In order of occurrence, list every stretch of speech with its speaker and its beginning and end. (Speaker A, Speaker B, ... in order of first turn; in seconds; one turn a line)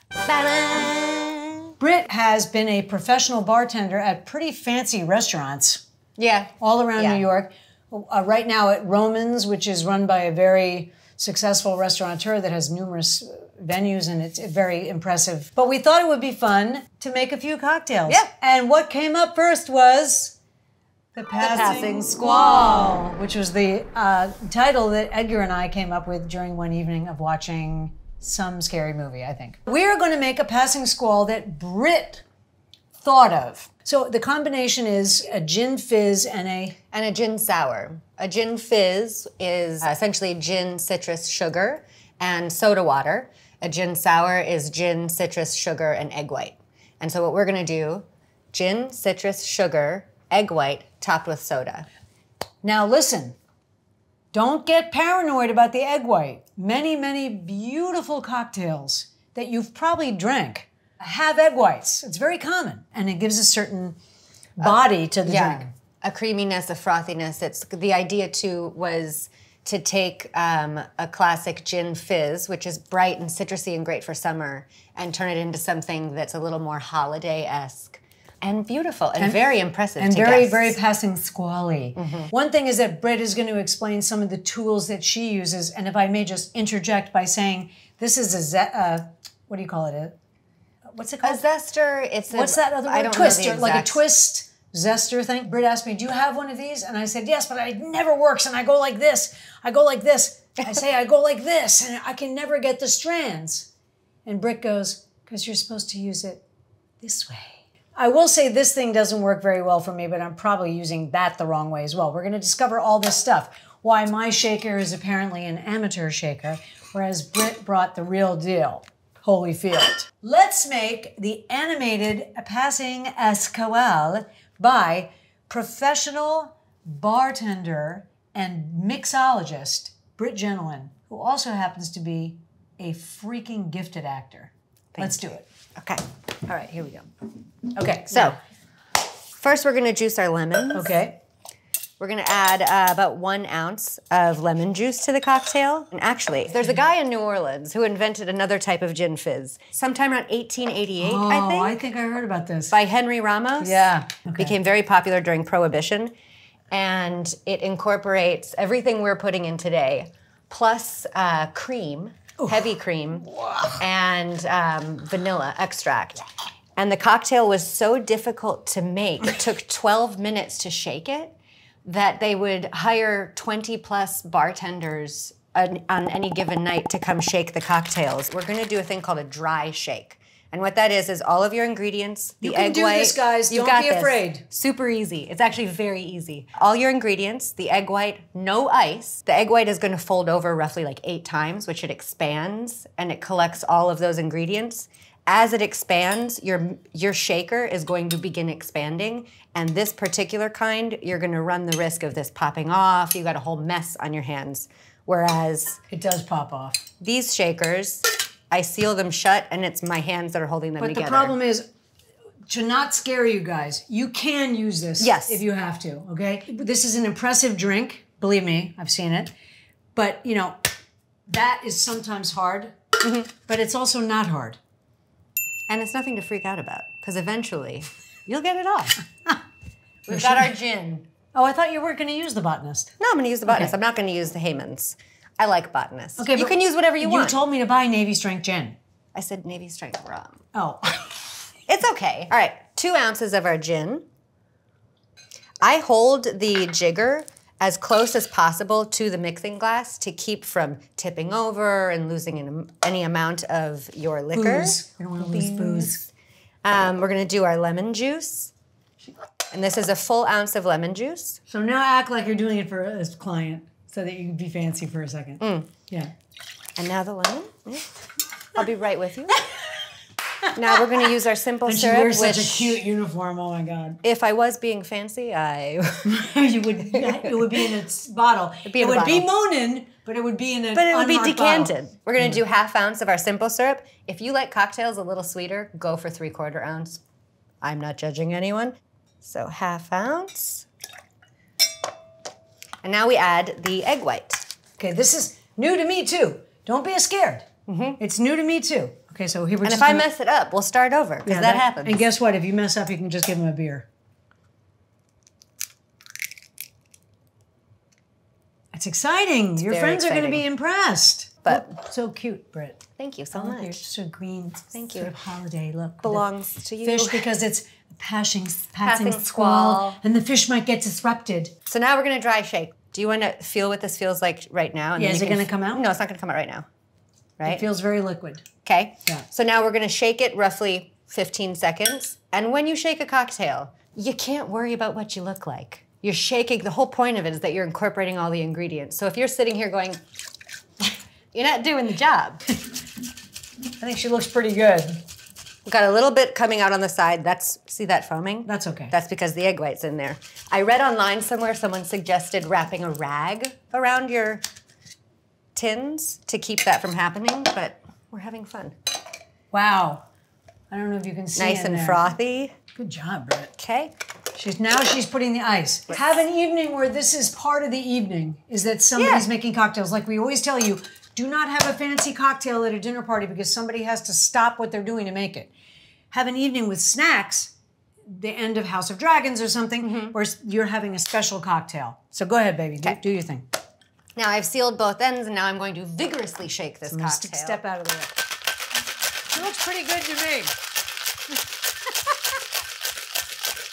Speaker A: 0.2-1.7
Speaker B: 1.8-5.8
Speaker A: 6.2-7.2
Speaker B: 6.6-20.4
Speaker B: 21.1-32.2
Speaker A: 21.4-23.1
Speaker B: 33.0-36.8
Speaker A: 36.9-51.9
Speaker B: 52.6-53.4
Speaker B: 54.3-64.0
Speaker B: 64.6-65.7
Speaker A: 64.6-80.8
Speaker B: 79.2-90.2
Speaker A: 82.0-82.3
Speaker B: 90.9-91.4
Speaker A: 91.2-94.0
Speaker B: 92.3-103.7
Speaker B: 104.2-106.4
Speaker B: 107.0-135.5
Speaker A: 134.9-135.2
Speaker A: 135.8-136.0
Speaker B: 136.5-137.1
Speaker B: 137.7-138.4
Speaker A: 138.1-138.4
Speaker A: 139.4-140.9
Speaker B: 140.7-141.2
Speaker A: 142.0-151.8
Speaker B: 151.0-152.7
Speaker A: 152.7-156.1
Speaker B: 153.6-154.5
Speaker A: 156.7-166.2
Speaker B: 162.4-162.7
Speaker B: 163.2-163.8
Speaker A: 166.8-205.8
Speaker B: 182.4-184.4
Speaker B: 205.9-206.8
Speaker A: 207.0-211.3
Speaker B: 210.8-211.7
Speaker B: 212.5-219.3
Speaker A: 215.0-215.4
Speaker B: 219.9-220.6
Speaker B: 221.3-222.8
Speaker A: 223.0-223.3
Speaker B: 223.5-224.6
Speaker A: 225.7-229.0
Speaker A: 230.1-231.1
Speaker B: 230.1-230.5
Speaker B: 231.3-232.9
Speaker A: 233.0-237.4
Speaker B: 233.5-233.7
Speaker B: 236.2-238.8
Speaker A: 239.1-240.4
Speaker B: 240.5-241.3
Speaker A: 241.7-244.0
Speaker A: 245.6-256.1
Speaker B: 254.3-256.0
Speaker A: 256.6-258.5
Speaker A: 259.5-261.4
Speaker B: 261.5-266.1
Speaker A: 265.4-265.7
Speaker A: 266.8-267.9
Speaker A: 268.5-269.4
Speaker A: 270.6-272.8
Speaker B: 270.7-271.1
Speaker B: 271.6-274.0
Speaker A: 274.0-276.3
Speaker B: 276.0-282.4
Speaker A: 276.9-277.7
Speaker A: 278.6-279.3
Speaker A: 280.7-287.0
Speaker A: 287.6-290.7
Speaker A: 292.8-294.4
Speaker B: 294.8-297.4
Speaker A: 297.7-298.0
Speaker B: 298.0-300.1
Speaker A: 299.6-302.1
Speaker B: 301.2-303.9
Speaker B: 308.7-312.8
Speaker A: 309.6-310.4
Speaker A: 311.4-311.7
Speaker A: 313.0-313.8
Speaker B: 313.3-316.3
Speaker A: 314.7-315.1
Speaker A: 316.0-317.3
Speaker B: 316.8-321.5
Speaker A: 318.8-320.0
Speaker A: 321.7-326.6
Speaker B: 325.0-325.8
Speaker A: 327.4-327.6
Speaker B: 327.4-328.4
Speaker A: 328.6-340.0
Speaker A: 341.3-342.4
Speaker B: 343.8-345.0
Speaker A: 345.6-354.4
Speaker B: 348.4-348.9
Speaker A: 355.5-358.7
Speaker B: 359.5-360.1
Speaker B: 360.7-362.1
Speaker A: 361.4-362.5
Speaker B: 362.8-363.5
Speaker A: 363.6-363.9
Speaker B: 364.3-375.5
Speaker A: 368.9-369.3
Speaker B: 376.1-377.5
Speaker B: 378.1-383.4
Speaker A: 379.8-380.2
Speaker A: 384.1-387.6
Speaker B: 386.9-388.1
Speaker B: 389.3-390.5